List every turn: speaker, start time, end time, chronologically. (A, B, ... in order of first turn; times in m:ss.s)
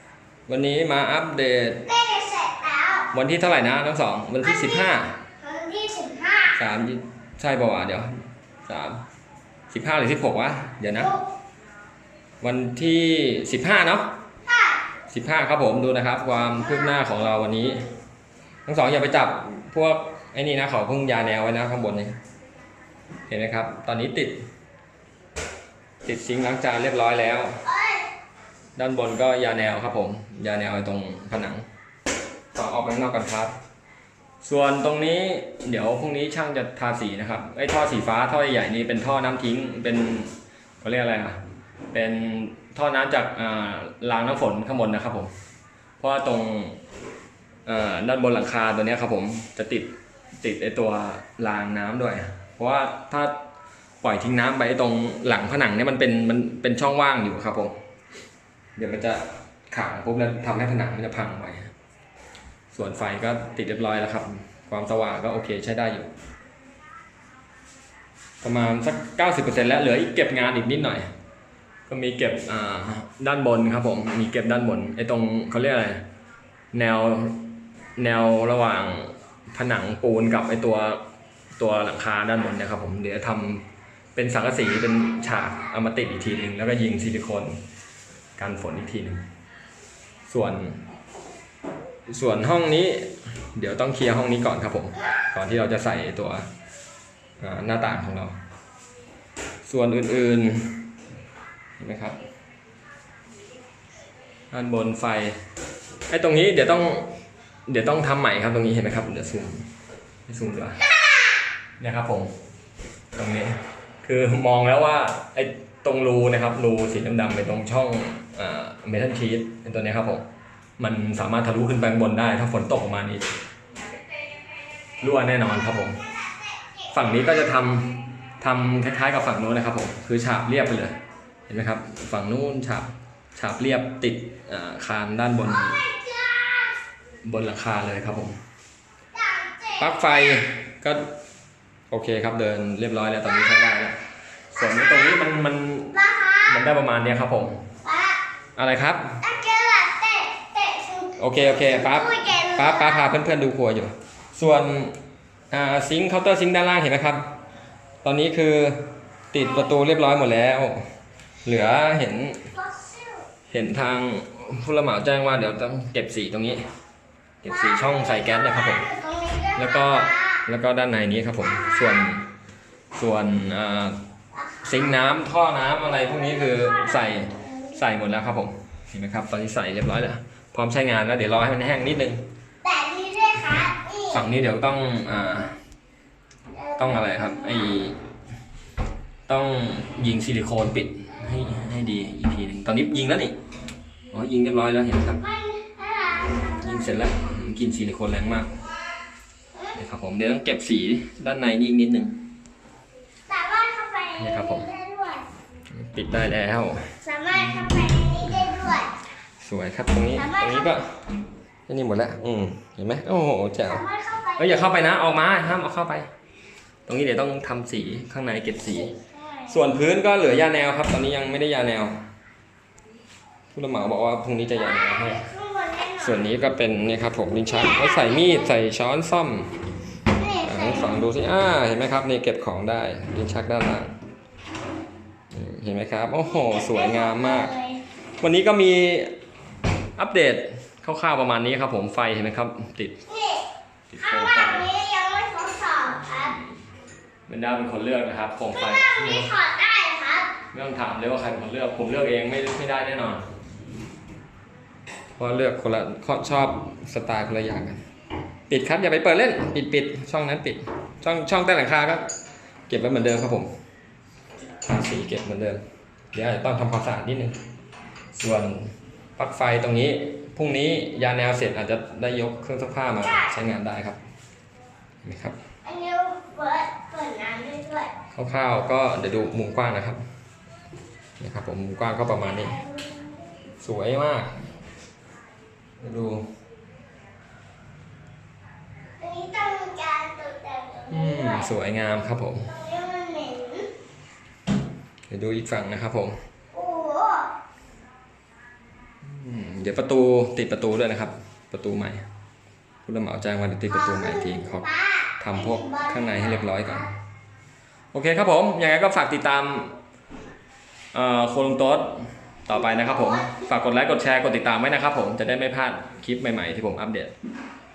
0:00.5-0:01.9 A
0:01.8-0:03.1 B
0:03.1-0:05.2 A
0:04.4-0:06.6 B
0:06.6-0:08.1 A
0:08.7-0:09.0 A
0:09.7-0:11.1 A
0:11.0-0:11.3 B
0:12.4-0:14.1 A
0:14.5-0:14.8 B
0:15.1-0:17.9 A
0:16.6-0:17.6 B
0:18.7-0:22.2 A
0:23.3-0:24.4 A
0:26.0-0:27.6 A
0:27.6-0:28.1 B
0:28.8-0:31.6 A
0:32.5-0:33.5 A
0:34.4-0:41.4 A
0:41.9-0:45.3 A
0:46.0-0:46.8 A
0:47.7-0:53.4 A
0:54.0-0:57.8 A
0:58.8-1:01.7 A
1:02.7-1:06.1 A
1:08.4-1:11.1 A
1:11.9-1:16.1 A
1:16.7-1:21.0 A
1:21.6-1:27.6 A
1:28.4-1:29.2 A
1:30.3-1:30.8 A
1:32.1-1:36.5 A
1:37.4-1:38.4 A
1:39.6-1:41.0 A
1:41.8-1:42.2 A
1:44.5-1:45.4 A
1:46.1-1:47.1 A
1:47.7-1:49.7 A
1:50.3-1:50.8 A
1:51.8-1:52.4 A
1:53.2-2:00.3 A
2:00.8-2:03.3 A
2:05.0-2:06.0 A
2:06.0-2:07.3 B
2:06.9-2:11.0 A
2:11.5-2:15.8 A
2:15.5-2:16.8 B
2:17.2-2:18.4 A
2:19.1-2:20.4 B
2:19.8-2:21.1 A
2:21.9-2:24.0 A
2:24.5-2:25.9 A
2:24.6-2:25.3 B
2:25.9-2:26.7 B
2:26.4-2:27.7 A
2:27.8-2:28.2 B
2:28.6-2:29.2 A
2:29.2-2:33.1 B
2:31.2-2:35.0 A
2:35.5-2:37.3 A
2:38.0-2:40.8 A
2:39.4-2:39.9 B
2:41.4-2:42.5 A
2:42.6-2:43.2 B
2:43.5-2:46.6 A
2:47.4-2:48.9 A
2:47.5-2:50.4 B
2:49.6-2:52.3 A
2:51.4-2:52.0 B
2:52.9-2:54.0 A
2:54.3-2:55.0 B
2:54.6-3:02.2 A
2:56.0-2:57.8 B
3:02.6-3:04.2 B
3:04.1-3:05.6 A
3:06.5-3:07.8 B
3:06.8-3:08.0 A
3:09.3-3:13.4 A
3:14.1-3:15.2 A
3:15.2-3:17.2 B
3:16.6-3:18.6 A
3:19.8-3:22.2 A
3:23.3-3:25.3 B
3:24.2-3:24.7 A
3:25.7-3:28.6 A
3:27.0-3:28.9 B
3:29.4-3:31.0 A
3:30.1-3:30.7 B
3:31.7-3:33.8 A
3:33.7-3:34.7 B
3:34.4-3:36.1 A
3:36.9-3:38.9 A
3:38.7-3:39.6 B
3:39.5-3:42.0 A
3:43.6-3:45.3 A
3:44.6-3:46.3 B
3:46.0-3:49.6 A
3:47.4-3:48.6 B
3:50.1-3:51.0 B
3:50.4-3:54.0 A
3:55.3-3:57.5 A
3:56.2-3:57.8 B
3:58.2-3:59.1 A
4:00.0-4:03.0 A
4:03.1-4:03.5 B
4:03.9-4:04.7 A
4:04.0-4:06.4 B
4:07.3-4:09.3 A
4:08.5-4:10.3 B
4:10.5-4:13.3 A
4:15.2-4:17.8 A
4:18.5-4:22.1 A
4:22.7-4:23.5 A
4:24.6-4:27.4 A
4:28.1-4:34.0 A
4:33.0-4:33.3 B
4:35.0-4:35.4 A
4:35.6-4:37.9 B
4:38.1-4:40.0 A
4:41.2-4:42.6 A
4:42.2-4:43.3 B
4:43.6-4:44.4 A
4:45.8-4:46.2 A
4:49.0-4:51.5 B
4:50.9-4:52.5 A
4:52.5-4:53.7 B
4:55.1-4:56.2 A
4:56.5-4:57.3 B
4:59.0-5:02.1 A
5:02.9-5:04.7 A
5:03.7-5:06.9 B
5:05.2-5:06.9 A
5:07.9-5:09.7 A
5:10.9-5:17.1 A
5:12.5-5:13.5 B